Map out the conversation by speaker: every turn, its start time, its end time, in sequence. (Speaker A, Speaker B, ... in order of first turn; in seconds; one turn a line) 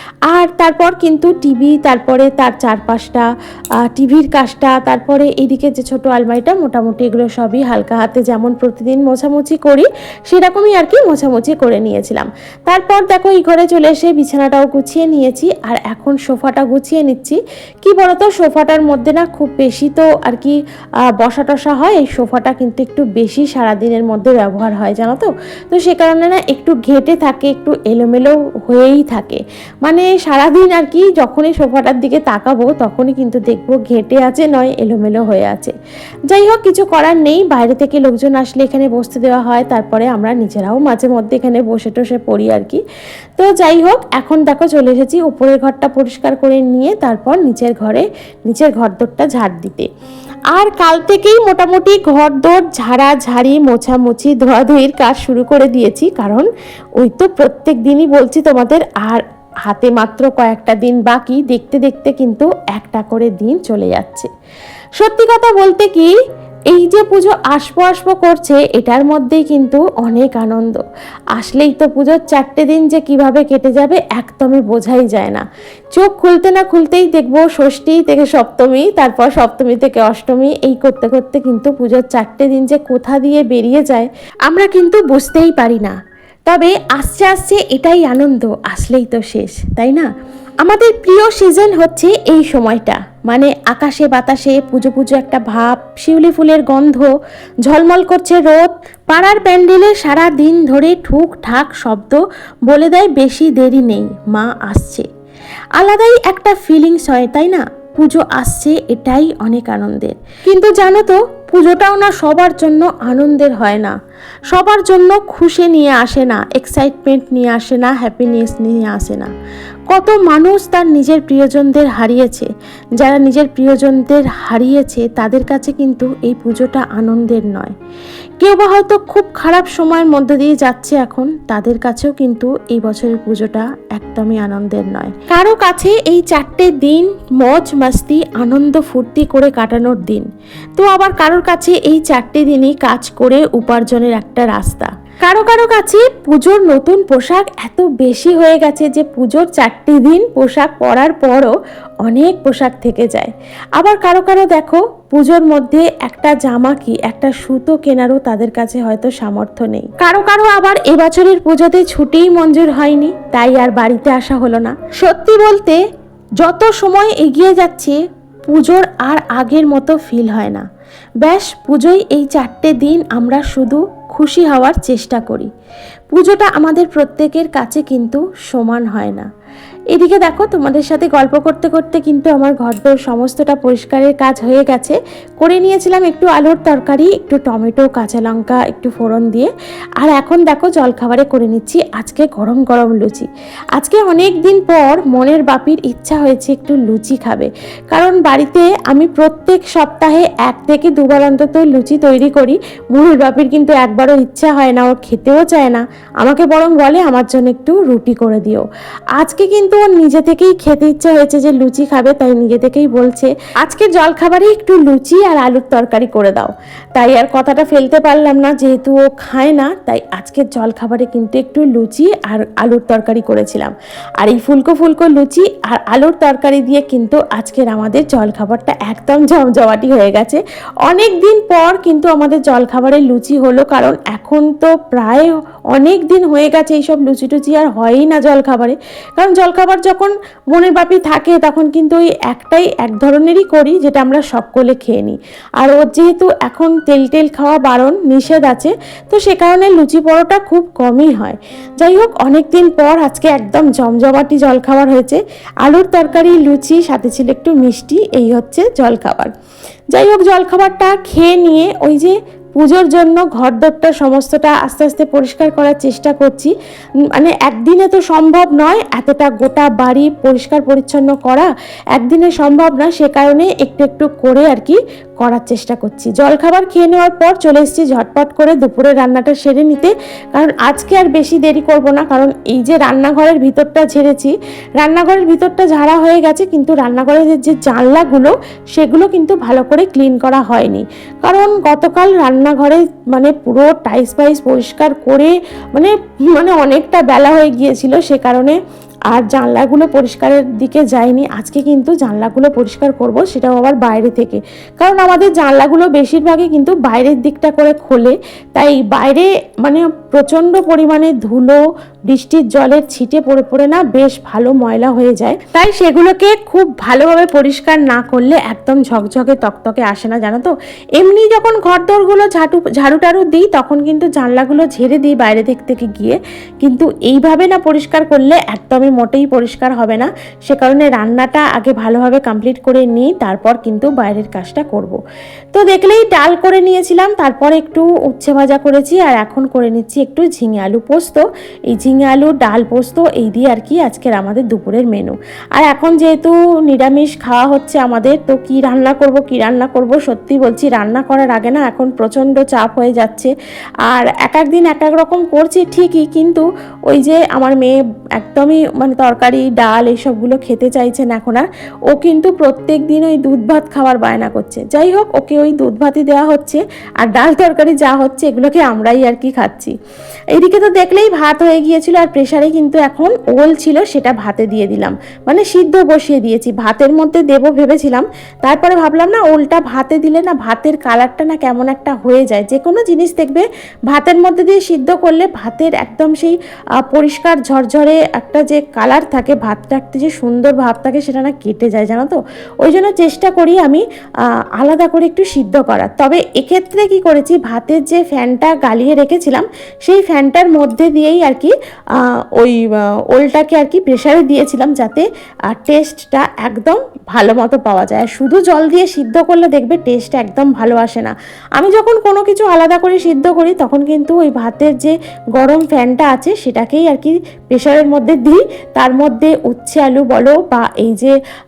Speaker A: 0.3-3.3
Speaker A: 3.9-20.6
Speaker A: 21.2-35.7
Speaker A: 36.3-42.8
Speaker A: 43.4-49.9
Speaker A: 50.5-64.3
Speaker A: 65.0-66.2
Speaker A: 66.7-97.1
Speaker A: 97.7-105.1
Speaker A: 105.8-114.0
Speaker A: 114.5-119.3
Speaker A: 119.9-127.7
Speaker A: 128.4-165.8
Speaker A: 166.4-170.7
Speaker A: 171.2-175.5
Speaker A: 176.1-179.3
Speaker A: 179.9-259.3
Speaker A: 259.9-266.5
Speaker A: 267.1-298.6
Speaker A: 299.1-335.0
Speaker A: 335.5-353.3
Speaker A: 353.9-369.8
Speaker A: 370.3-393.8
Speaker A: 394.6-421.1